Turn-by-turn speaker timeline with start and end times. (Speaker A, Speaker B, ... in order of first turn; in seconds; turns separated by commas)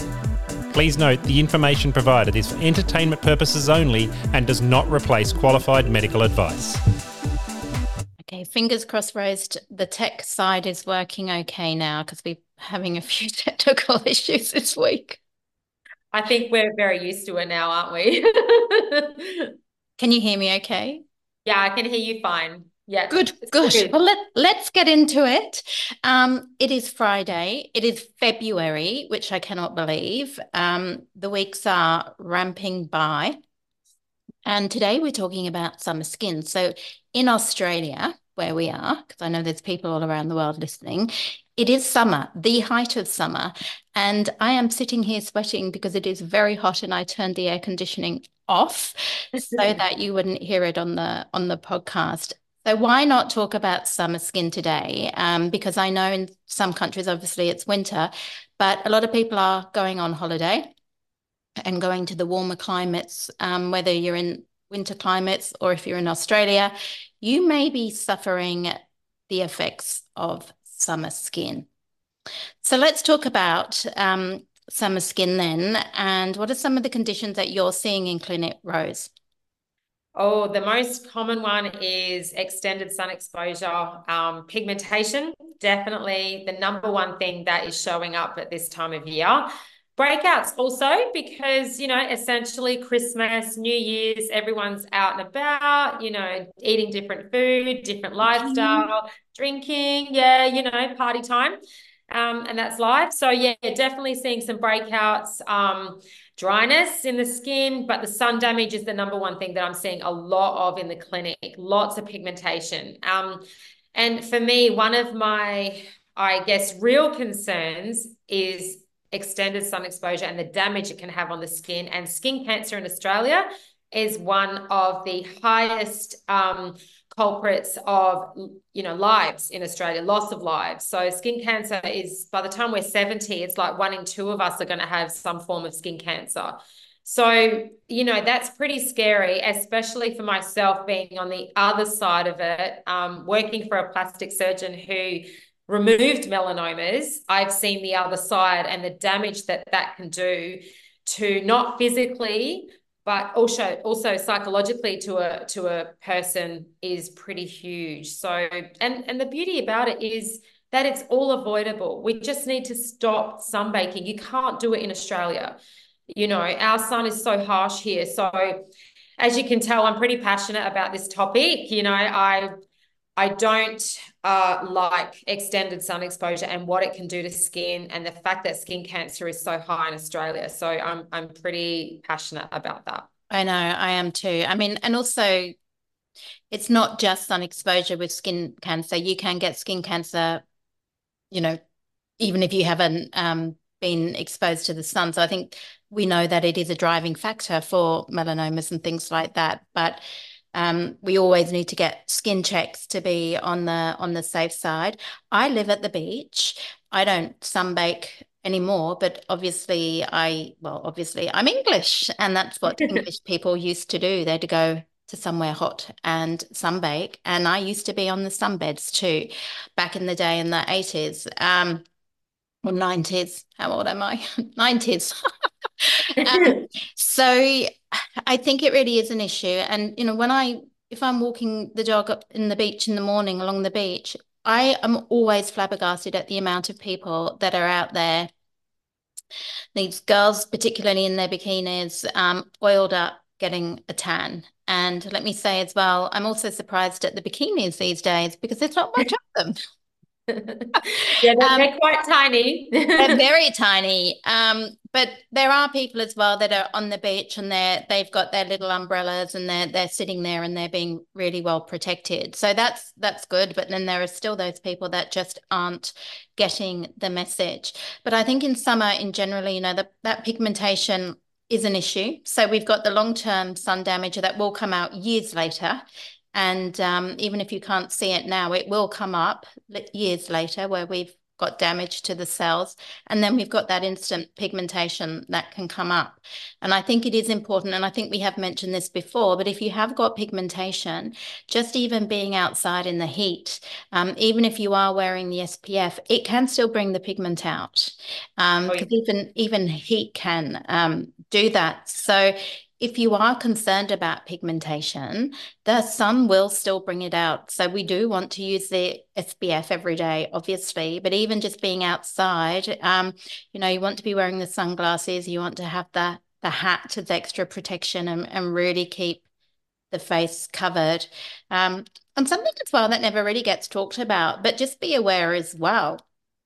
Speaker A: 0.7-6.8, Speaker B: 8.2-15.2, Speaker C: 16.1-19.5, Speaker B: 20.0-21.0, Speaker C: 21.4-23.9, Speaker B: 23.1-33.4, Speaker B: 34.5-60.7, Speaker B: 61.6-68.7, Speaker B: 69.3-71.7, Speaker B: 72.6-79.1, Speaker C: 80.2-101.6, Speaker B: 98.3-98.9, Speaker C: 102.1-165.6, Speaker C: 166.1-168.6, Speaker C: 169.2-172.6, Speaker C: 173.2-183.1, Speaker B: 183.3-185.5, Speaker B: 186.5-190.4, Speaker B: 191.3-191.6, Speaker B: 192.2-200.0, Speaker B: 200.5-221.8, Speaker B: 222.6-238.3, Speaker B: 239.7-249.6, Speaker C: 250.3-253.2, Speaker B: 250.8-251.7, Speaker B: 253.0-319.2, Speaker B: 319.9-326.0